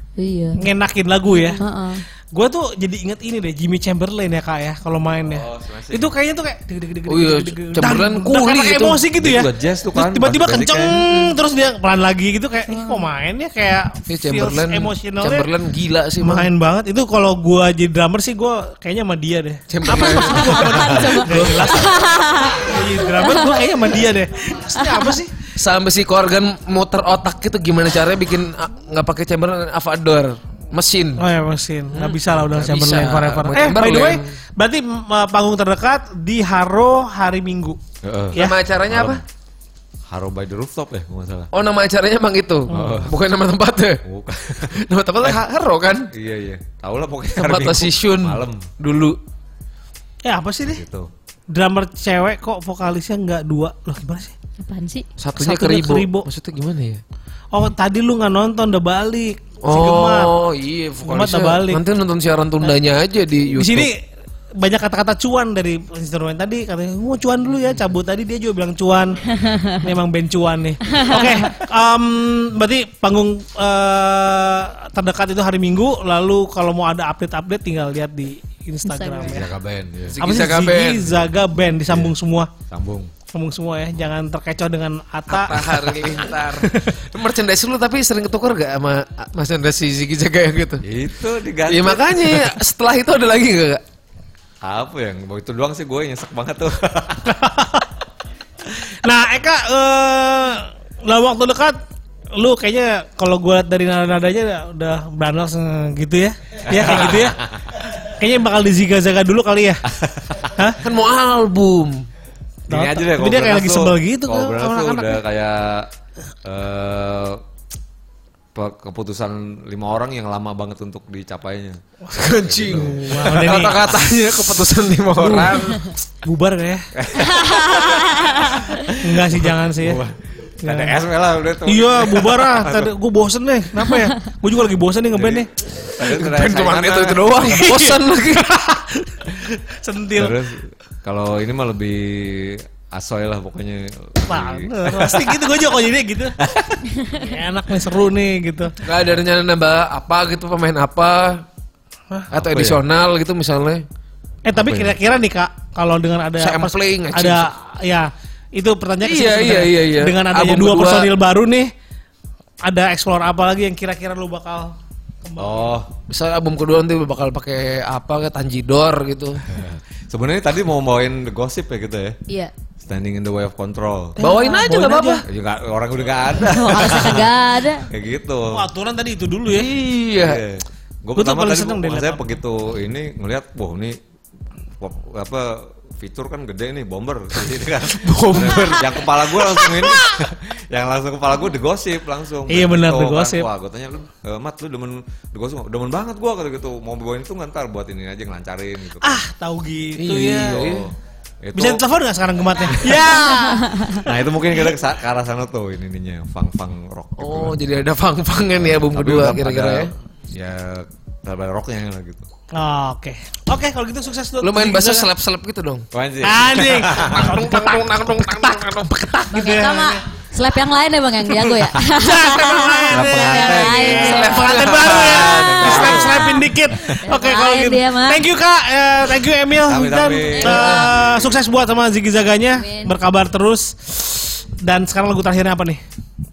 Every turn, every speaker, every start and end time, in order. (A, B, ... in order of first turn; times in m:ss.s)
0:00.2-0:00.6 A
0:00.6-0:01.6 B
0:01.3-0:02.0 A
0:02.3-0:15.5 B
0:05.2-0:06.1 C
0:07.1-0:09.0 D
0:09.2-0:11.0 C
0:10.9-0:11.3 D
0:14.1-0:16.5 D
0:16.2-0:25.3 B
0:19.7-0:21.8 D
0:19.9-0:23.6 A
0:24.8-0:25.1 A
0:25.6-0:31.2 D
0:31.2-0:37.8 B
0:31.9-0:34.3 D
0:38.0-0:39.2 C
0:38.4-0:39.2 D
0:40.1-0:41.5 C
0:41.5-0:44.0 D
0:42.7-0:43.0 B
0:42.7-0:43.1 C
0:44.0-0:45.4 C
0:44.8-0:46.1 D
0:46.1-0:48.7 C
0:47.4-0:49.2 D
0:50.2-0:50.8 B
0:50.6-0:51.1 C
0:51.5-0:54.3 B
0:54.6-0:55.0 A
0:55.2-0:57.0 D
0:55.4-0:56.2 B
0:57.5-1:00.3 B
0:59.6-1:03.9 D
1:01.0-1:01.8 B
1:03.6-1:04.0 B
1:04.6-1:09.2 B
1:09.3-1:09.8 A
1:09.8-1:19.5 B
1:10.8-1:11.6 A
1:18.9-1:19.4 A
1:19.3-1:20.2 C
1:20.1-1:21.1 D
1:20.2-1:22.5 B
1:21.9-1:22.1 C
1:22.7-1:23.1 C
1:23.3-1:26.9 B
1:25.3-1:30.8 D
1:30.8-1:32.5 C
1:31.7-1:33.8 D
1:34.6-1:37.3 C
1:37.3-1:37.9 B
1:39.0-1:41.8 B
1:42.4-1:49.8 B
1:46.7-1:47.6 C
1:49.9-1:50.5 C
1:50.8-1:52.0 D
1:52.7-1:55.9 C
1:52.7-1:55.2 B
1:56.4-1:57.4 C
1:58.5-2:01.8 C
2:02.1-2:05.9 D
2:02.3-2:04.0 C
2:02.7-2:03.8 B
2:05.2-2:06.9 B
2:06.9-2:12.9 C
2:07.4-2:08.6 A
2:09.0-2:10.0 B
2:10.6-2:11.0 B
2:11.6-2:15.5 B
2:15.1-2:17.6 C
2:16.0-2:18.5 D
2:17.4-2:20.4 B
2:20.1-2:25.4 C
2:24.3-2:28.8 B
2:28.8-2:31.4 D
2:32.3-2:32.8 C
2:32.3-2:33.8 D
2:34.4-2:41.7 B
2:34.6-2:34.9 C
2:36.4-2:37.5 D
2:39.0-2:41.1 D
2:42.6-2:44.7 B
2:45.2-2:45.8 B
2:45.4-2:45.9 C
2:46.1-2:49.4 D
2:49.5-2:52.2 C
2:52.8-2:54.2 C
2:54.2-2:55.2 B
2:54.2-2:55.2 D
2:55.3-2:57.3 C
2:56.4-2:57.9 A
2:57.9-2:58.6 C
2:58.5-2:59.7 B
2:59.5-3:00.4 D
3:00.1-3:04.0 C
3:01.2-3:02.3 B
3:04.8-3:19.2 C
3:07.8-3:09.7 D
3:12.5-3:13.5 B
3:19.0-3:20.7 B
3:20.0-3:20.8 D
3:20.4-3:21.8 C
3:21.6-3:24.1 B
3:23.2-3:23.9 A
3:24.0-3:27.6 C
3:27.2-3:29.9 D
3:28.6-3:32.2 C
3:32.6-3:35.1 B
3:34.4-3:35.9 D
3:35.9-3:37.3 C
3:36.2-3:40.0 B
3:37.0-3:39.5 D
3:39.3-3:48.2 A
3:41.8-3:55.8 B
3:42.9-3:44.0 C
3:43.9-3:45.4 D
3:44.9-3:46.3 C
3:49.6-3:51.1 C
3:50.3-3:51.0 A
3:52.6-3:53.0 A